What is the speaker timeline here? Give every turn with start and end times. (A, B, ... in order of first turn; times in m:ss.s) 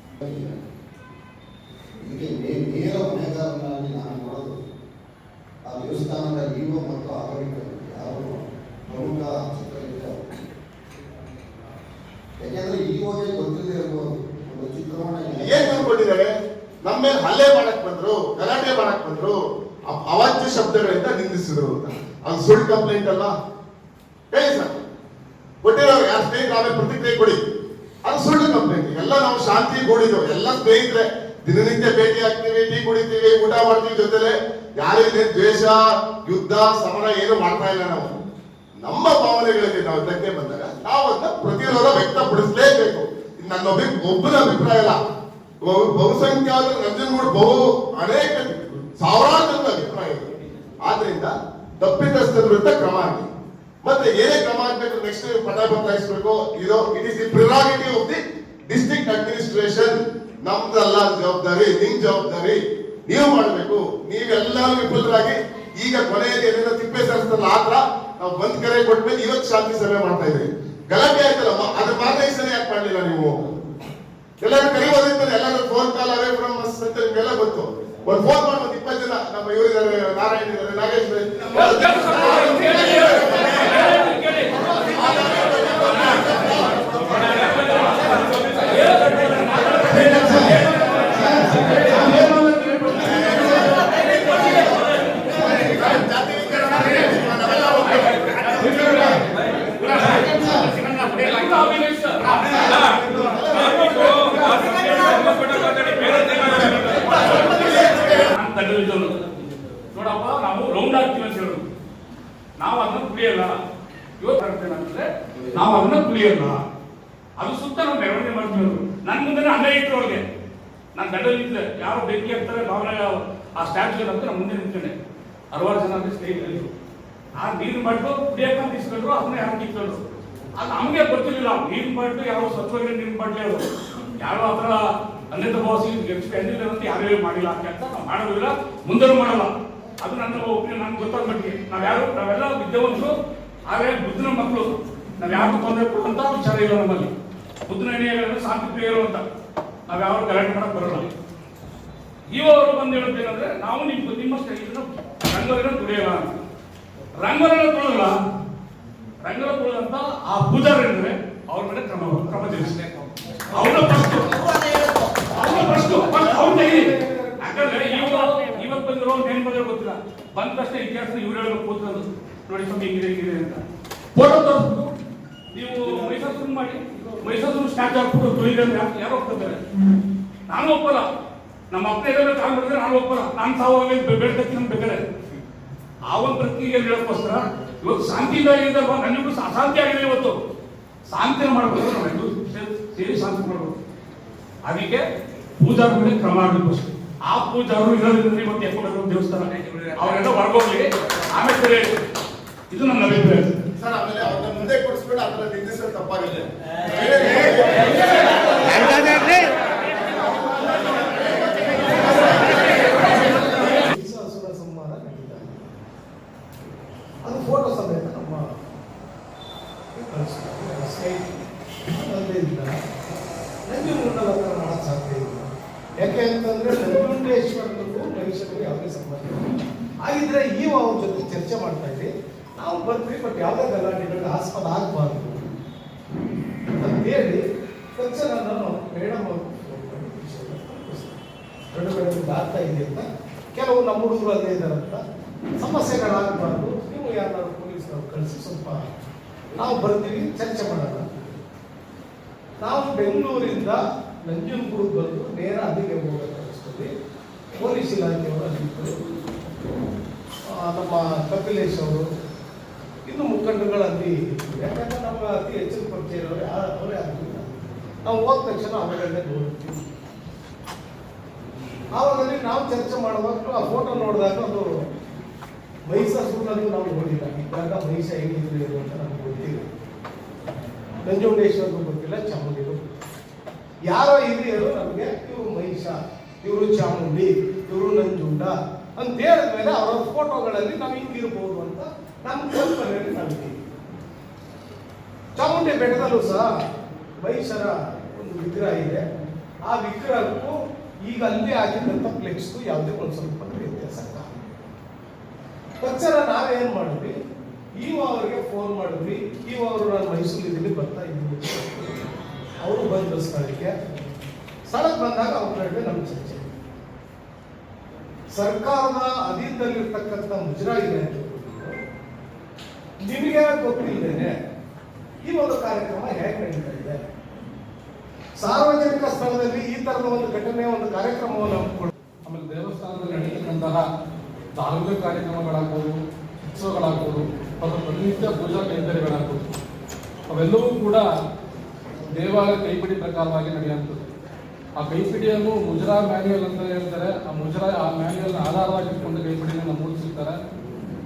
0:00.2-0:00.6 A
0:02.0-0:04.6 A
0:05.6-0:10.3 A
0:12.4-0:15.9 A
0:15.4-0:16.3 B
0:16.8-0:23.3 B
0:24.3-0:24.8 B
0:25.6-0:27.4 B
0:28.0-0:38.2 B
0:38.8-0:45.0 B
0:45.6-0:50.3 B
0:50.8-0:53.3 B
0:53.8-1:13.4 B
1:14.4-1:23.9 B
1:21.5-1:24.5 C
1:24.6-1:27.5 B
1:27.3-1:30.7 C
1:29.9-1:30.5 B
1:31.7-1:33.3 C
1:34.2-1:34.6 B
1:35.3-1:39.2 B
1:39.8-1:49.2 C
1:43.7-1:44.3 B
1:47.0-1:48.2 B
1:49.9-1:51.6 C
1:52.6-1:53.6 C
1:54.2-1:56.6 C
1:57.4-2:00.2 C
2:00.9-2:04.9 C
2:05.5-2:06.7 C
2:07.4-2:10.0 C
2:10.6-2:23.1 C
2:23.7-2:24.7 C
2:25.2-2:27.1 C
2:27.7-2:29.2 C
2:29.9-2:31.1 C
2:32.3-2:36.3 C
2:37.2-2:38.2 C
2:39.2-2:42.8 C
2:43.5-2:44.4 C
2:45.3-2:53.6 C
2:45.3-2:48.4 D
2:54.1-2:54.9 C
2:55.5-2:59.6 C
3:00.5-3:01.0 C
3:01.7-3:05.0 C
3:06.1-3:10.4 C
3:11.1-3:13.7 C
3:14.6-3:15.0 C
3:15.6-3:21.9 C
3:22.7-3:23.6 C
3:23.8-3:27.9 B
3:28.7-3:29.1 B
3:33.1-3:35.7 D
3:37.2-3:38.5 D
3:39.9-3:41.3 D
3:41.9-3:42.9 D
3:43.6-3:49.5 D
3:50.0-3:55.5 D
3:56.8-3:57.4 D
3:58.0-4:01.2 D
4:01.7-4:05.0 D
4:05.6-4:08.8 D
4:09.5-4:11.3 D
4:12.6-4:16.9 D
4:17.6-4:18.9 D
4:20.5-4:22.1 D
4:23.1-4:29.9 D
4:31.9-4:34.8 D
4:35.8-4:39.7 D
4:41.0-4:42.8 D
4:43.9-4:53.6 D
4:55.4-4:56.5 D
4:57.2-4:59.0 D
4:59.6-5:04.3 D
5:05.8-5:07.2 D
5:07.8-5:12.0 D
5:12.6-5:13.8 D
5:14.7-5:16.5 D
5:18.3-5:21.8 D
5:23.0-5:24.3 D
5:25.2-5:27.0 D
5:28.4-5:31.9 D
5:32.2-5:33.8 E
5:34.6-5:39.5 E
5:40.3-5:41.1 E
5:42.1-5:44.1 E
5:44.8-5:50.4 E